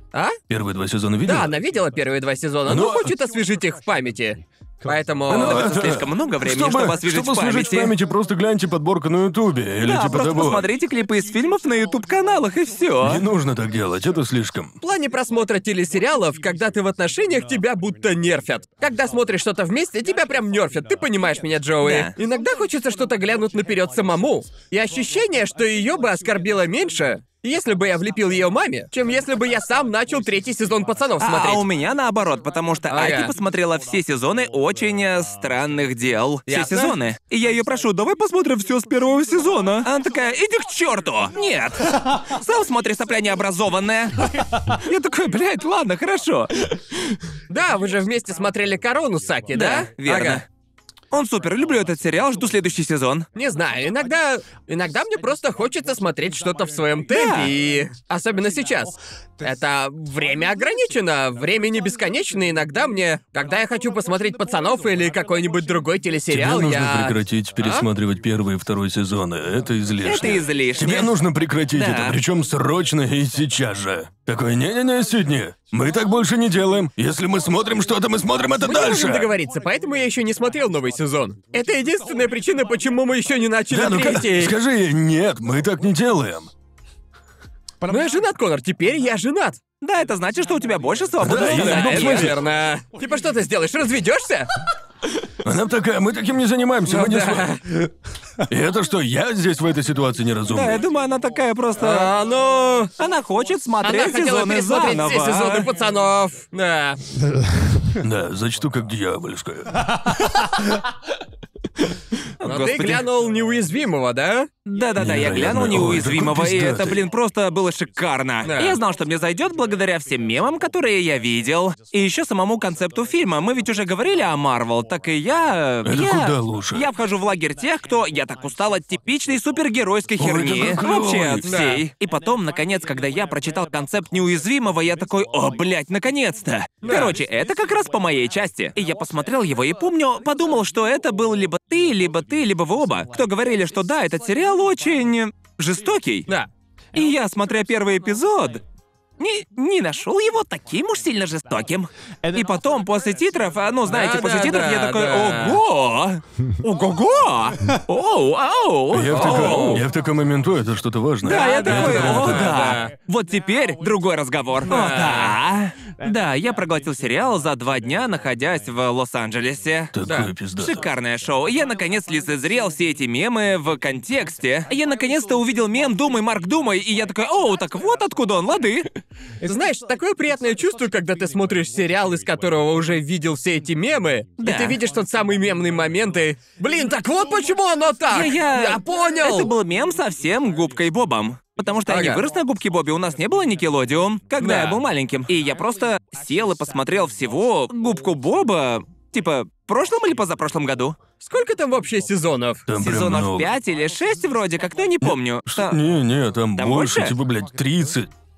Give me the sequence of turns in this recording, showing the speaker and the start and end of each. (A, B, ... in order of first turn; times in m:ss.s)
0:00.5-0:01.5 A
0:01.2-0:05.7 B
0:02.7-0:03.1 A
0:05.3-0:10.7 A
0:05.3-0:07.9 C
0:09.8-0:13.2 C
0:13.0-0:14.7 A
0:14.8-0:31.6 B
0:21.8-0:22.1 C
0:31.2-0:46.6 C
0:32.9-0:33.3 B
0:36.5-0:37.0 B
0:47.5-0:50.4 B
0:49.5-0:50.4 C
0:51.1-0:53.3 C
0:53.4-1:07.9 B
0:57.1-0:57.5 C
1:06.3-1:19.3 A
1:10.0-1:11.1 C
1:11.7-1:12.2 C
1:18.6-1:24.6 B
1:23.7-1:26.5 A
1:27.9-1:29.6 B
1:29.8-1:32.4 C
1:31.2-1:32.4 A
1:31.5-1:34.5 B
1:35.4-1:37.5 A
1:36.9-1:37.6 B
1:38.5-1:40.8 A
1:40.5-1:42.1 C
1:41.8-1:42.9 B
1:43.0-1:45.7 C
1:43.8-1:47.0 B
1:48.0-1:49.9 A
1:52.4-1:53.1 C
1:52.4-1:54.5 B
1:54.7-2:26.3 C
1:55.0-1:57.0 A
1:58.4-1:58.8 B
2:05.8-2:06.9 A
2:10.2-2:11.5 A
2:11.4-2:11.8 B
2:16.8-2:17.2 B
2:26.9-2:28.6 C
2:29.2-2:39.9 C
2:33.9-2:35.6 B
2:38.9-2:42.6 A
2:39.1-2:39.8 B
2:41.2-2:42.9 B
2:41.2-2:49.9 C
2:44.7-2:45.4 B
2:49.9-2:50.8 A
2:50.1-2:50.3 B
2:50.6-2:58.9 C
2:59.4-3:09.5 B
3:04.4-3:04.8 C
3:08.1-3:21.0 C
3:11.9-3:12.2 B
3:14.4-3:14.8 B
3:21.2-3:22.6 B
3:22.7-3:23.5 A
3:22.8-3:25.8 C
3:25.0-3:28.1 A
3:26.6-3:27.2 C